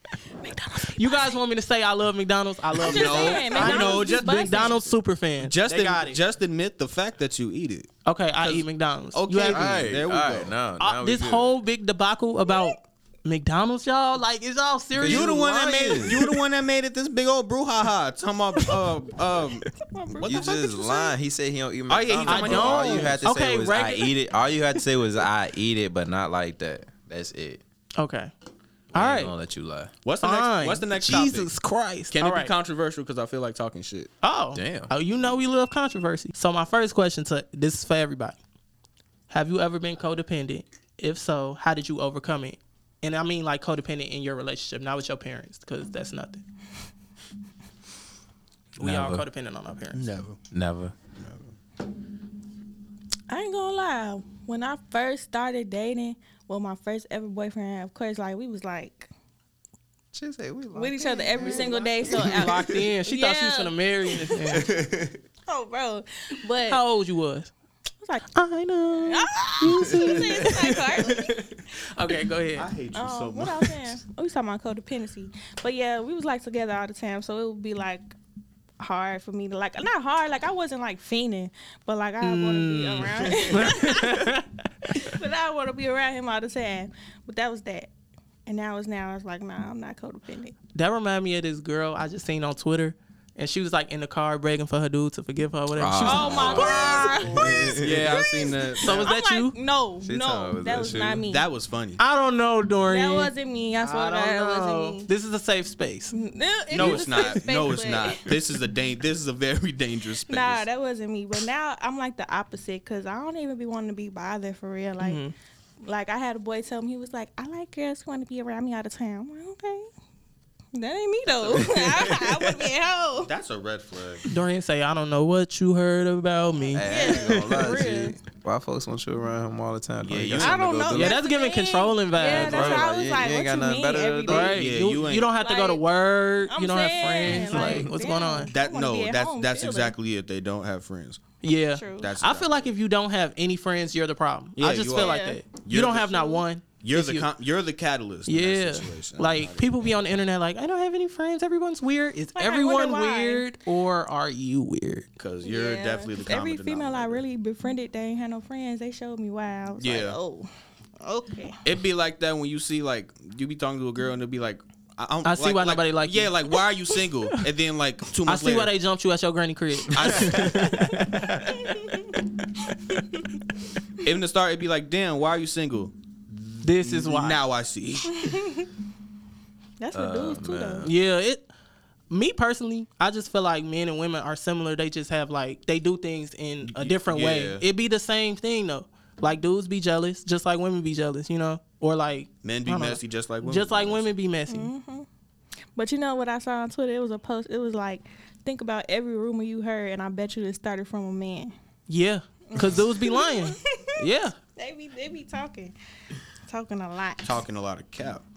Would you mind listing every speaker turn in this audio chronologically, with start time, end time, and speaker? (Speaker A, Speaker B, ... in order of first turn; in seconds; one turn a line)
Speaker A: 0.4-1.4
Speaker B: 0.9-6.2
Speaker A: 2.8-4.8
Speaker C: 2.8-4.8
Speaker C: 5.4-7.9
Speaker B: 8.1-9.8
Speaker C: 8.4-10.5
Speaker D: 9.5-11.5
Speaker B: 10.8-16.2
Speaker D: 15.0-16.2
Speaker C: 15.0-20.5
Speaker A: 19.9-21.1
Speaker D: 20.2-27.6
Speaker C: 21.9-23.3
Speaker B: 22.2-24.1
Speaker B: 28.0-28.3
Speaker B: 28.9-29.3
Speaker D: 28.9-29.9
Speaker C: 30.0-31.5
Speaker B: 30.2-32.5
Speaker C: 32.1-34.1
Speaker B: 34.2-38.4
Speaker D: 34.5-34.9
Speaker B: 39.3-46.4
Speaker B: 48.8-50.1
Speaker D: 48.8-49.2
Speaker C: 49.9-50.4
Speaker D: 50.5-50.9
Speaker C: 51.2-51.5
Speaker A: 53.3-59.1
Speaker D: 60.1-62.5
Speaker A: 60.7-64.6
Speaker B: 62.1-64.7
Speaker D: 64.7-65.1
Speaker A: 65.5-66.8
Speaker B: 66.7-67.5
Speaker B: 68.3-71.2
Speaker A: 69.1-71.4
Speaker D: 69.7-71.1
Speaker B: 71.8-72.7
Speaker C: 72.6-74.0
Speaker A: 72.9-78.1
Speaker A: 78.8-87.9
Speaker B: 82.2-84.4
Speaker A: 88.5-90.5
Speaker B: 90.7-97.4
Speaker D: 95.8-98.2
Speaker A: 96.0-101.4
Speaker C: 97.7-99.1
Speaker B: 98.8-99.5
Speaker D: 100.0-101.2
Speaker C: 101.2-102.0
Speaker B: 102.0-106.1
Speaker A: 102.8-105.1
Speaker A: 106.1-108.3
Speaker C: 106.7-110.6
Speaker B: 106.7-107.3
Speaker A: 110.3-115.2
Speaker B: 115.0-115.3
Speaker A: 115.8-119.9
Speaker A: 120.7-123.3
Speaker D: 121.5-122.6
Speaker C: 123.2-124.2
Speaker B: 124.3-127.4
Speaker D: 126.7-131.2
Speaker A: 126.7-128.2
Speaker C: 130.0-131.1
Speaker A: 130.4-134.6
Speaker B: 130.9-132.9
Speaker D: 132.2-134.7
Speaker B: 134.3-138.5
Speaker C: 134.5-135.3
Speaker A: 135.4-135.8
Speaker A: 136.5-139.9
Speaker D: 137.2-137.9
Speaker C: 138.5-141.2
Speaker B: 141.4-147.3
Speaker A: 141.7-142.1
Speaker C: 142.0-142.6
Speaker C: 144.6-146.2
Speaker A: 144.9-145.4
Speaker A: 146.1-146.4
Speaker C: 146.8-149.9
Speaker B: 148.2-155.1
Speaker A: 152.3-153.4
Speaker C: 155.2-157.2
Speaker A: 155.4-160.5
Speaker C: 159.8-160.2
Speaker A: 161.0-161.6
Speaker C: 161.6-168.7
Speaker B: 165.2-166.6
Speaker B: 168.2-171.6
Speaker C: 169.9-171.0
Speaker C: 174.0-175.9
Speaker C: 176.6-178.5
Speaker B: 176.6-177.4
Speaker A: 178.2-178.6
Speaker A: 179.8-180.9
Speaker D: 179.9-180.9
Speaker B: 180.8-181.5
Speaker B: 182.1-194.7
Speaker C: 186.6-187.6
Speaker C: 192.4-194.1
Speaker A: 194.5-195.1
Speaker A: 195.8-201.6
Speaker B: 201.9-204.4
Speaker A: 202.5-204.1
Speaker A: 204.6-205.7
Speaker A: 206.4-207.3
Speaker C: 207.2-208.2